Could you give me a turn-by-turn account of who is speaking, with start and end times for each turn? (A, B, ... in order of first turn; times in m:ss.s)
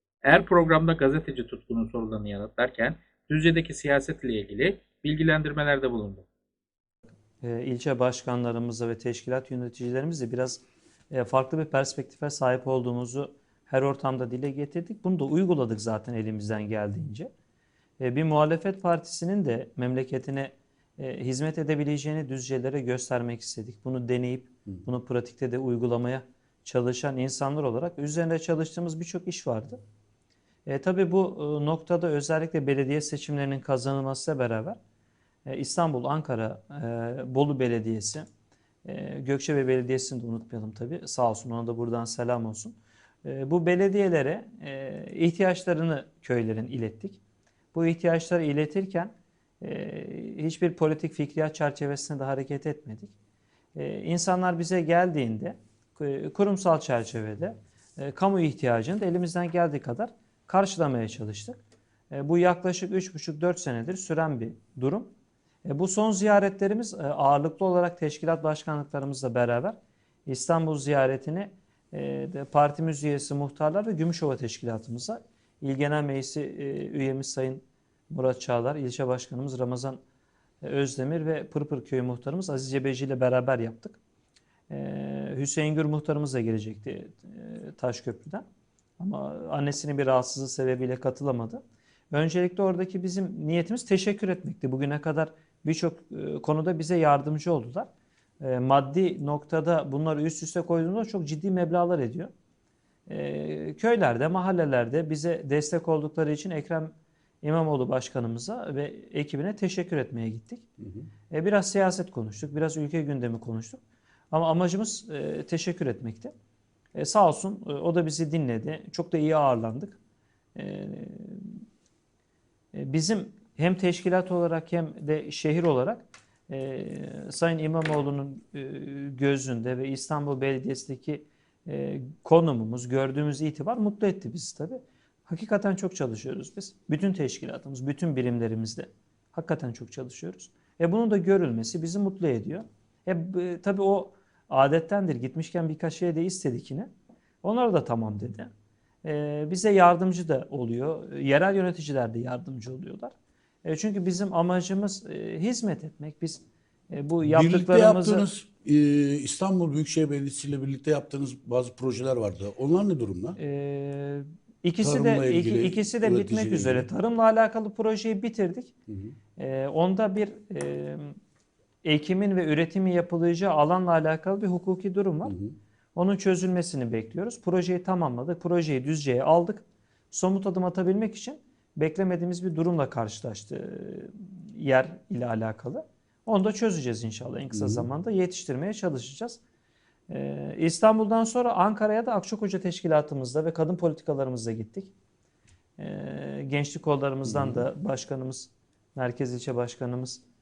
0:00.2-0:06.2 A
0:07.4-0:17.3 B
0:18.0-0:29.8 B
0:30.7-0:34.8 B
0:35.5-0:38.2 B
0:38.8-0:47.2 B
0:47.7-0:53.1 B
0:53.8-1:01.6 B
1:02.1-1:05.1 B
1:05.6-1:20.0 B
1:20.6-1:24.0 B
1:24.7-1:28.4 B
1:29.0-1:31.6 B
1:32.1-1:37.9 B
1:38.4-1:42.3 B
1:43.1-1:50.6 B
1:51.3-1:53.8 B
1:54.3-1:56.3 B
1:57.0-2:00.0 B
2:00.6-2:01.6 B
2:02.7-2:26.9 B
2:27.4-2:28.5 B
2:29.0-2:38.3 B
2:37.2-2:43.4 C
2:43.4-2:48.7 B
2:44.8-2:46.9 C
2:48.9-2:49.1 C
2:49.4-2:51.2 B
2:51.8-2:55.4 B
2:55.3-2:55.6 C
2:56.0-3:09.4 B
3:07.5-3:07.9 C
3:10.1-3:14.9 B
3:15.8-3:20.2 B
3:17.3-3:17.7 C